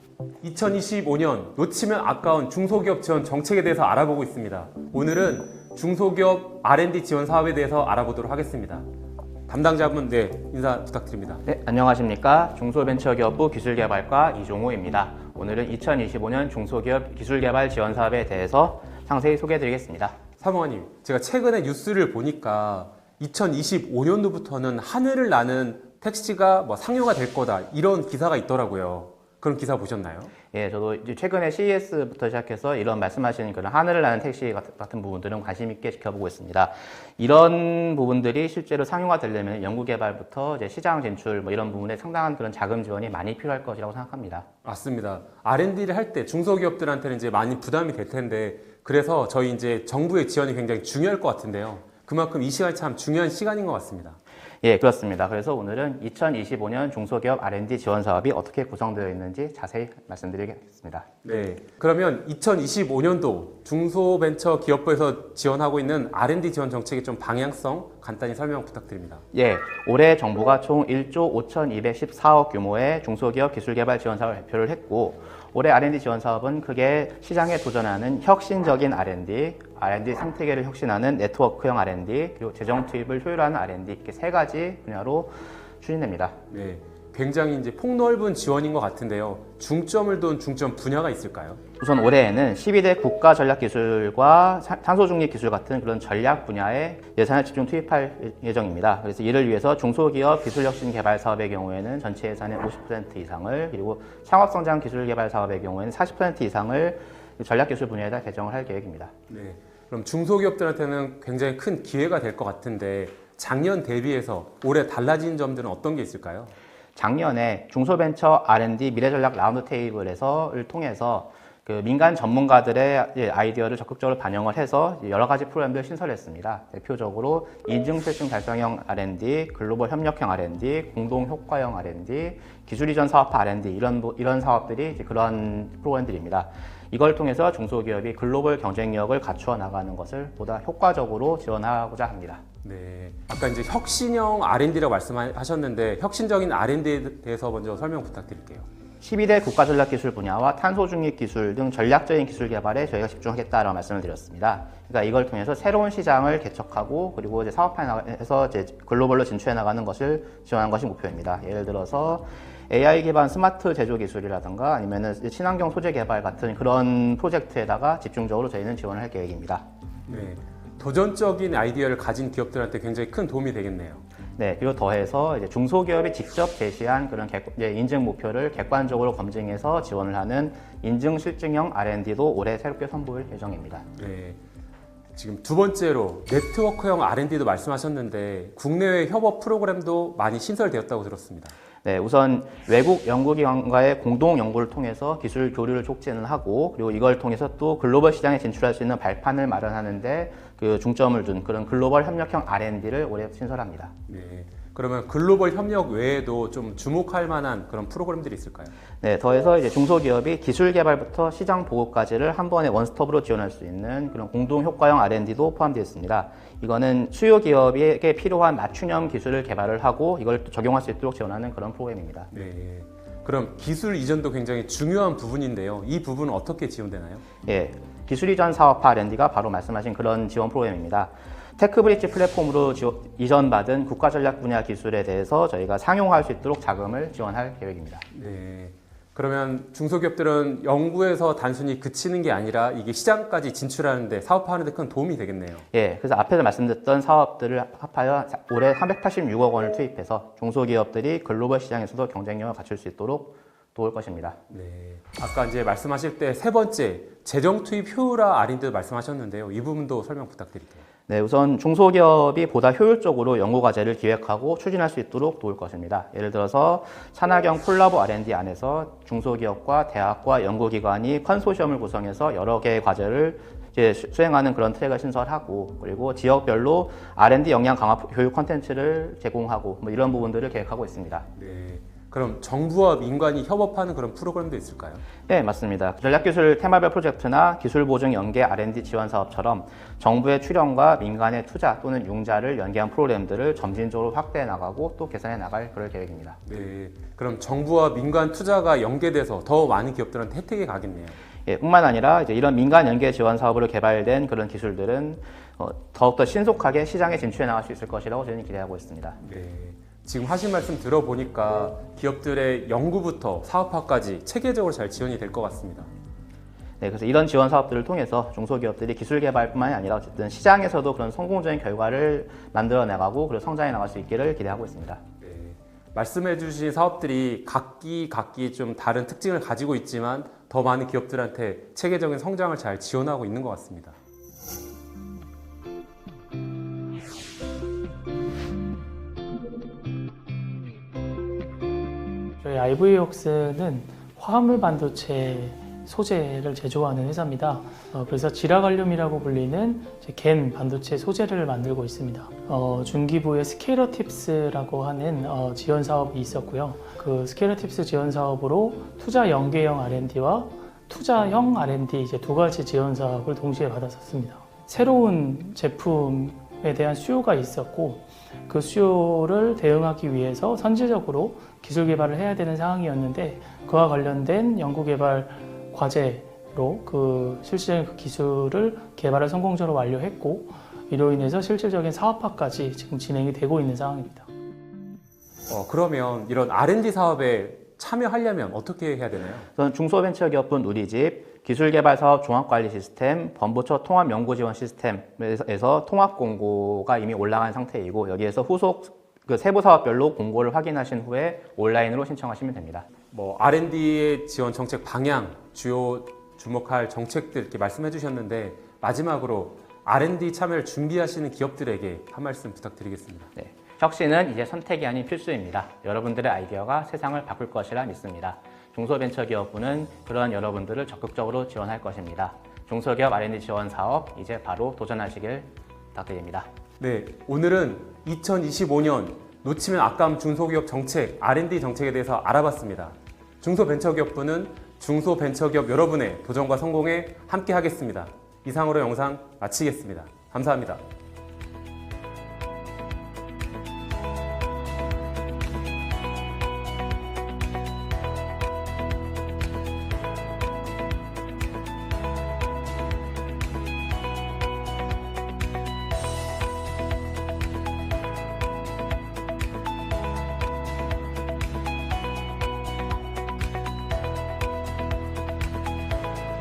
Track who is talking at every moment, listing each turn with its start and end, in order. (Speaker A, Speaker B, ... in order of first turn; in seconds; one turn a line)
Speaker A: 0.4-8.9
Speaker A: 9.5-11.4
Speaker B: 11.4-20.2
Speaker A: 20.4-30.3
Speaker B: 30.5-44.5
Speaker A: 44.6-54.2
Speaker B: 54.6-61.1
Speaker A: 61.2-69.2
Speaker B: 69.3-86.4
Speaker A: 86.5-91.6
Speaker B: 91.8-109.1
Speaker A: 109.3-116.5
Speaker B: 117.0-142.4
Speaker A: 142.6-148.7
Speaker B: 149.0-169.6
Speaker A: 170.1-174.0
Speaker B: 174.4-183.8
Speaker A: 183.9-184.4
Speaker A: 185.1-191.5
Speaker B: 191.8-203.9
Speaker A: 204.1-208.7
Speaker B: 209.0-222.3
Speaker A: 222.3-227.2
Speaker B: 227.4-238.1
Speaker A: 238.1-245.6
Speaker B: 245.7-254.4
Speaker A: 254.5-260.8
Speaker B: 261.1-281.3
Speaker A: 281.4-285.0
Speaker B: 285.3-296.4
Speaker A: 296.4-301.2
Speaker B: 301.4-309.2
Speaker A: 309.2-315.9
Speaker B: 316.8-325.0
Speaker A: 325.2-333.9
Speaker C: 342.4-384.3
Speaker A: 385.5-389.4
Speaker B: 389.6-402.9
Speaker A: 403.1-413.3
Speaker B: 413.4-426.5
Speaker A: 426.8-440.8